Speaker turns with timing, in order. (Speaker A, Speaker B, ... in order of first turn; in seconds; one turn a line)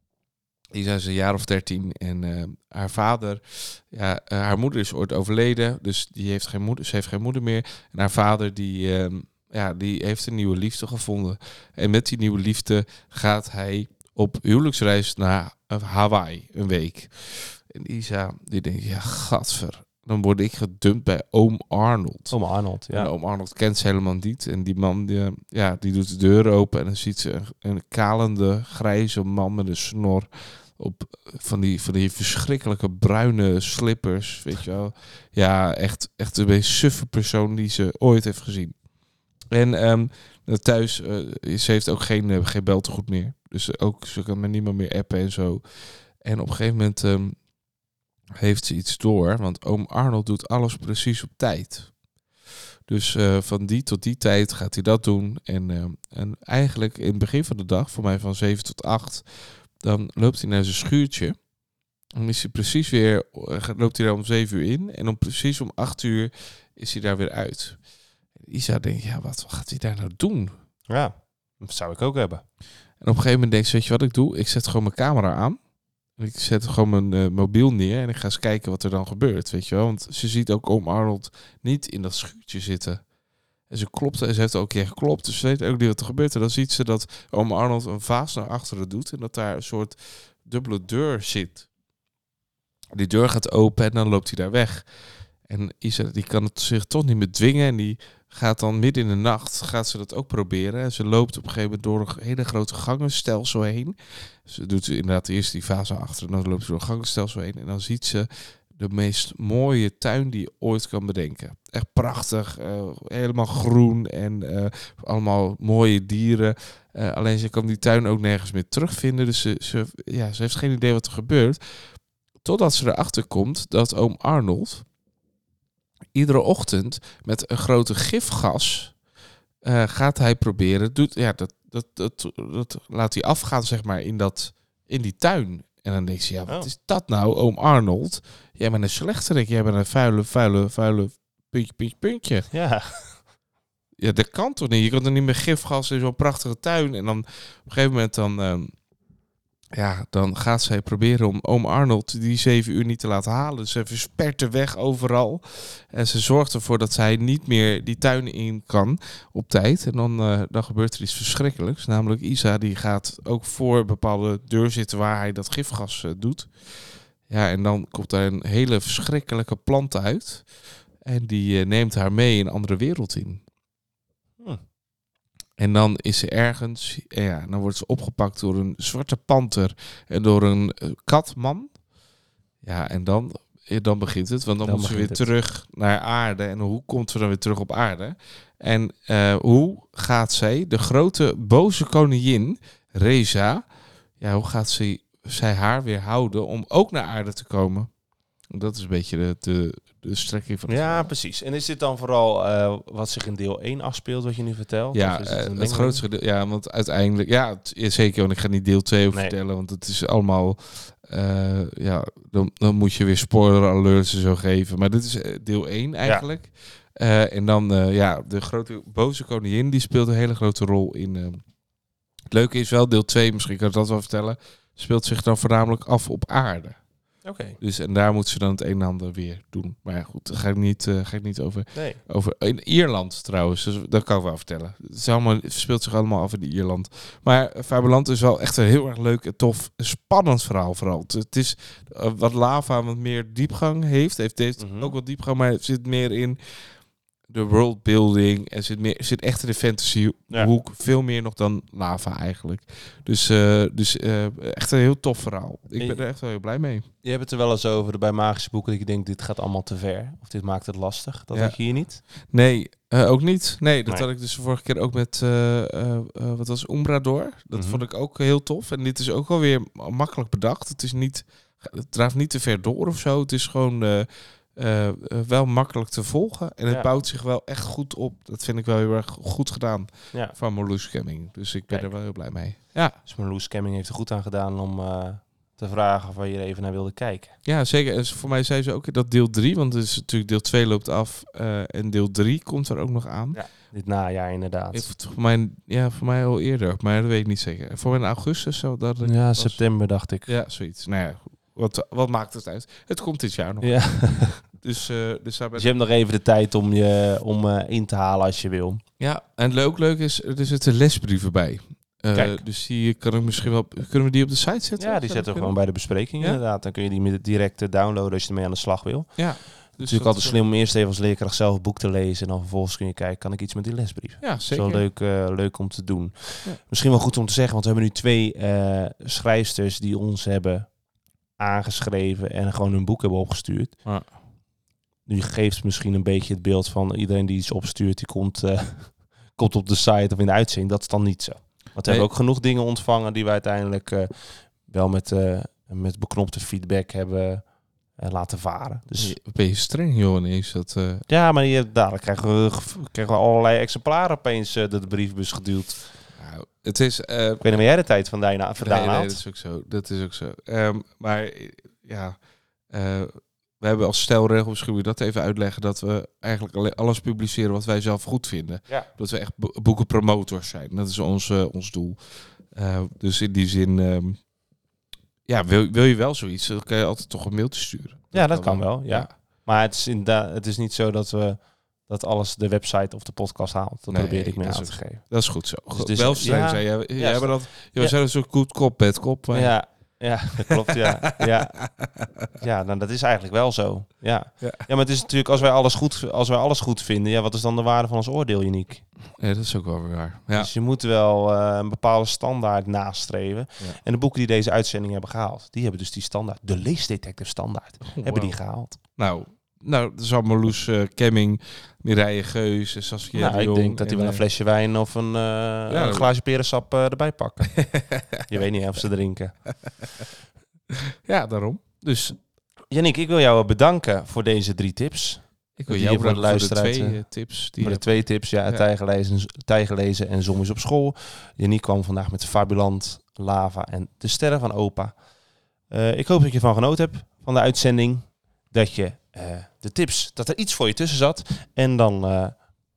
Speaker A: 0.7-22.4
Speaker B: 22.3-23.1
Speaker A: 22.9-38.9
Speaker A: 39.5-47.5
Speaker A: 48.4-52.0
Speaker A: 52.9-61.5
Speaker A: 62.1-70.5
Speaker B: 70.9-72.4
Speaker A: 73.0-83.1
Speaker A: 83.7-91.7
Speaker A: 93.0-124.9
Speaker A: 126.1-129.0
Speaker A: 129.6-142.5
Speaker B: 142.5-143.2
Speaker A: 144.0-148.8
Speaker A: 149.7-173.4
Speaker A: 175.6-181.8
Speaker A: 182.6-197.9
Speaker B: 184.6-185.3
Speaker A: 198.5-201.1
Speaker B: 200.7-206.1
Speaker A: 204.9-221.5
Speaker A: 222.3-226.9
Speaker B: 227.2-227.6
Speaker A: 227.6-256.9
Speaker B: 231.8-232.0
Speaker B: 244.6-244.9
Speaker B: 257.0-262.0
Speaker A: 261.3-283.0
Speaker B: 267.5-267.8
Speaker B: 281.7-282.0
Speaker B: 283.0-287.4
Speaker A: 287.4-293.4
Speaker B: 293.3-294.9
Speaker A: 294.7-305.7
Speaker B: 299.0-300.3
Speaker B: 303.6-304.4
Speaker B: 305.6-308.8
Speaker A: 309.0-316.4
Speaker B: 312.1-312.4
Speaker B: 314.8-330.8
Speaker A: 319.2-320.4
Speaker A: 324.2-324.9
Speaker B: 331.4-333.9
Speaker A: 333.9-334.2
Speaker B: 335.1-349.2
Speaker A: 349.0-351.0
Speaker B: 351.1-356.1
Speaker A: 356.1-357.6
Speaker B: 357.4-359.2
Speaker A: 358.6-374.3
Speaker A: 375.3-379.1
Speaker B: 378.1-387.9
Speaker A: 383.9-390.0
Speaker B: 389.3-391.8
Speaker A: 391.2-392.0
Speaker B: 392.3-398.9
Speaker A: 394.4-394.7
Speaker A: 399.2-400.5
Speaker B: 400.4-408.8
Speaker A: 407.9-414.2
Speaker B: 413.1-419.6
Speaker A: 415.7-416.1
Speaker A: 417.6-418.3
Speaker A: 421.1-422.2
Speaker B: 422.7-435.0
Speaker A: 425.6-428.7
Speaker B: 435.7-442.5